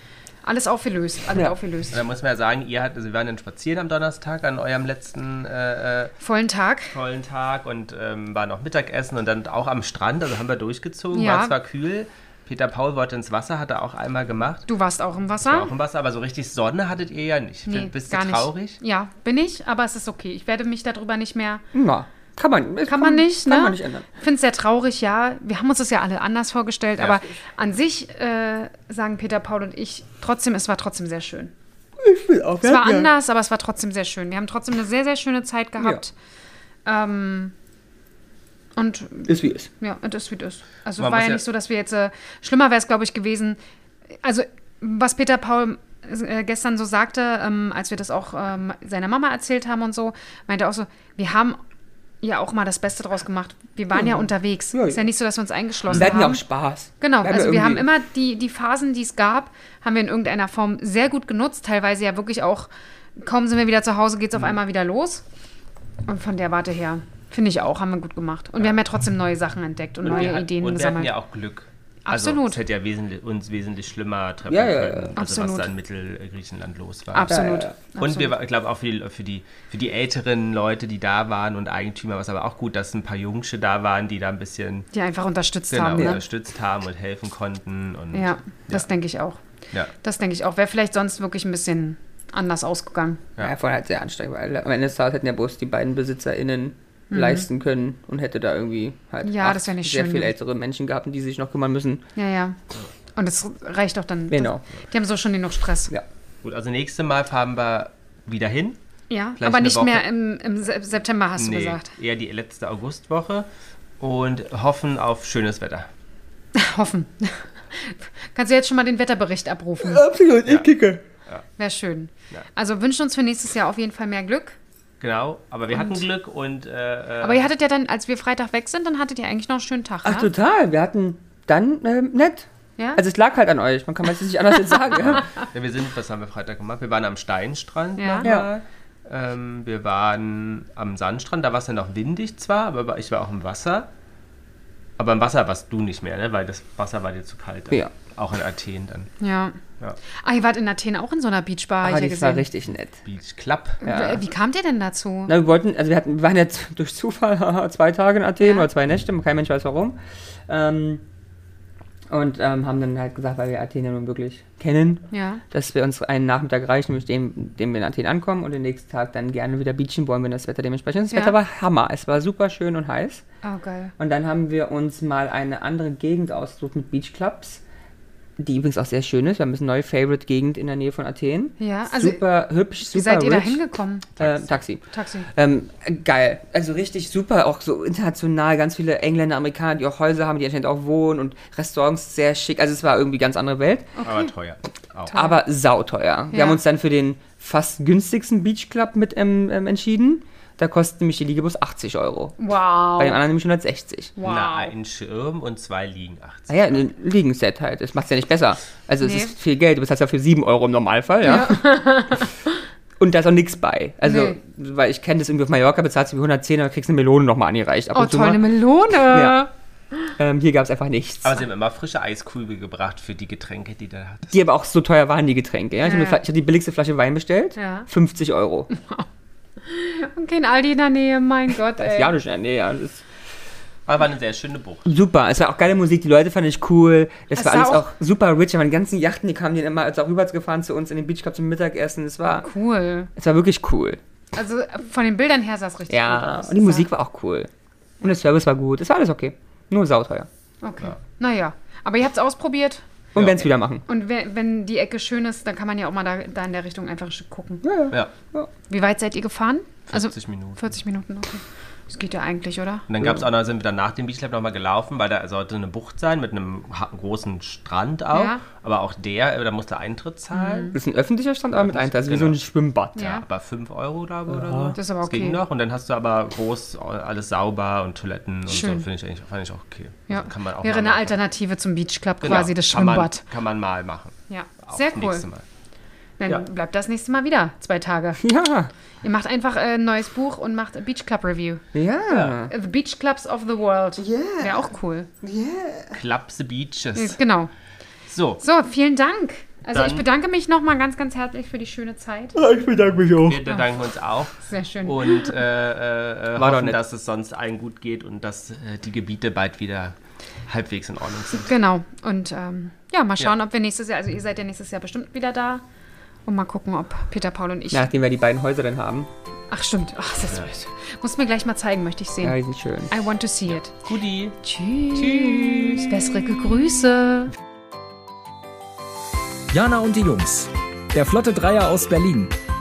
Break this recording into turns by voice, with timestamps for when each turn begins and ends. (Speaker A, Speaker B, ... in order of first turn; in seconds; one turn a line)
Speaker A: 0.4-2.0
Speaker B: 1.9-6.1
Speaker A: 6.2-6.9
Speaker B: 6.9-14.7
Speaker A: 11.1-11.5
Speaker A: 14.7-15.7
Speaker B: 15.4-18.8
Speaker A: 17.7-21.6
Speaker C: 21.7-24.0
Speaker A: 22.9-31.5
Speaker C: 32.0-33.1
Speaker A: 32.6-36.1
Speaker A: 36.9-37.5
Speaker A: 38.8-39.3
Speaker C: 39.3-39.7
Speaker A: 39.8-43.6
Speaker B: 41.0-41.4
Speaker A: 44.2-51.6
Speaker A: 52.2-56.4
Speaker C: 53.9-55.0
Speaker B: 55.9-56.1
Speaker C: 55.9-57.9
Speaker A: 57.0-65.2
Speaker A: 66.1-71.1
Speaker B: 70.0-84.9
Speaker A: 72.0-72.6
Speaker C: 74.5-75.1
Speaker A: 75.2-75.7
Speaker A: 77.1-78.3
Speaker C: 77.3-77.8
Speaker A: 84.9-86.2
Speaker B: 85.7-88.9
Speaker A: 88.1-89.4
Speaker A: 90.0-93.2
Speaker C: 93.4-102.0
Speaker A: 97.1-97.5
Speaker A: 99.2-100.3
Speaker A: 102.2-102.6
Speaker A: 103.1-105.9
Speaker C: 104.3-104.6
Speaker B: 106.4-108.8
Speaker A: 109.1-111.9
Speaker B: 109.4-110.0
Speaker B: 111.4-113.5
Speaker B: 114.0-115.9
Speaker A: 116.5-120.0
Speaker C: 119.8-121.0
Speaker A: 121.6-124.5
Speaker B: 125.0-127.5
Speaker A: 125.7-126.0
Speaker A: 127.2-130.3
Speaker C: 130.0-135.3
Speaker B: 135.0-143.9
Speaker A: 138.0-138.3
Speaker C: 138.2-138.5
Speaker B: 145.0-149.1
Speaker A: 149.2-149.6
Speaker A: 150.2-152.4
Speaker C: 151.8-153.0
Speaker B: 153.0-153.8
Speaker A: 153.8-155.3
Speaker C: 153.8-154.2
Speaker C: 155.3-161.0
Speaker A: 158.4-158.7
Speaker C: 162.1-173.2
Speaker A: 165.1-165.4
Speaker A: 171.1-171.3
Speaker A: 173.4-173.9
Speaker C: 174.0-177.6
Speaker C: 178.4-183.6
Speaker A: 181.6-182.2
Speaker A: 182.8-184.1
Speaker B: 184.2-184.6
Speaker C: 184.2-193.9
Speaker A: 184.9-185.3
Speaker A: 193.9-194.3
Speaker B: 194.0-195.2
Speaker A: 195.1-195.4
Speaker C: 195.1-202.3
Speaker A: 196.3-196.6
Speaker A: 202.4-203.2
Speaker C: 203.0-204.1
Speaker A: 204.2-204.7
Speaker B: 204.2-206.8
Speaker C: 206.5-211.8
Speaker A: 209.0-209.3
Speaker A: 211.2-212.3
Speaker C: 213.0-219.4
Speaker A: 214.0-214.4
Speaker A: 217.9-219.5
Speaker C: 220.2-221.4
Speaker B: 221.2-224.3
Speaker C: 224.3-228.7
Speaker A: 225.8-226.2
Speaker A: 227.6-227.9
Speaker A: 228.7-229.1
Speaker A: 229.6-232.2
Speaker C: 231.8-233.0
Speaker B: 233.9-234.8
Speaker C: 234.8-242.5
Speaker A: 237.3-237.9
Speaker A: 242.3-243.1
Speaker C: 243.2-244.0
Speaker A: 244.3-246.9
Speaker C: 245.9-247.5
Speaker C: 248.0-250.3
Speaker A: 250.6-252.8
Speaker C: 253.1-253.8
Speaker A: 253.9-257.6
Speaker C: 257.6-258.5
Speaker A: 258.7-262.9
Speaker B: 259.9-260.7
Speaker B: 262.9-270.8
Speaker A: 268.1-268.4
Speaker A: 270.3-270.8
Speaker C: 270.7-273.1
Speaker B: 271.6-272.4
Speaker A: 272.9-273.2
Speaker B: 273.0-281.2
Speaker C: 274.3-274.8
Speaker A: 274.7-275.4
Speaker A: 278.5-278.9
Speaker A: 280.1-283.2
Speaker B: 282.2-285.4
Speaker A: 284.3-285.2
Speaker A: 286.2-288.2
Speaker C: 288.2-288.7
Speaker A: 289.0-291.6
Speaker C: 291.7-292.5
Speaker B: 292.1-292.4
Speaker A: 292.5-295.1
Speaker C: 294.0-296.0
Speaker B: 295.9-297.2
Speaker A: 296.9-297.5
Speaker B: 298.1-298.4
Speaker A: 298.4-302.4
Speaker B: 299.7-300.1
Speaker C: 302.4-303.5
Speaker B: 303.1-309.9
Speaker A: 304.4-305.4
Speaker C: 306.4-306.8
Speaker B: 310.5-311.6
Speaker A: 311.4-315.6
Speaker A: 316.2-317.9
Speaker C: 317.7-319.1
Speaker A: 319.5-322.4
Speaker C: 322.2-322.9
Speaker A: 322.9-323.7
Speaker B: 323.5-324.4
Speaker A: 324.4-327.3
Speaker B: 324.9-326.2
Speaker D: 329.5-332.3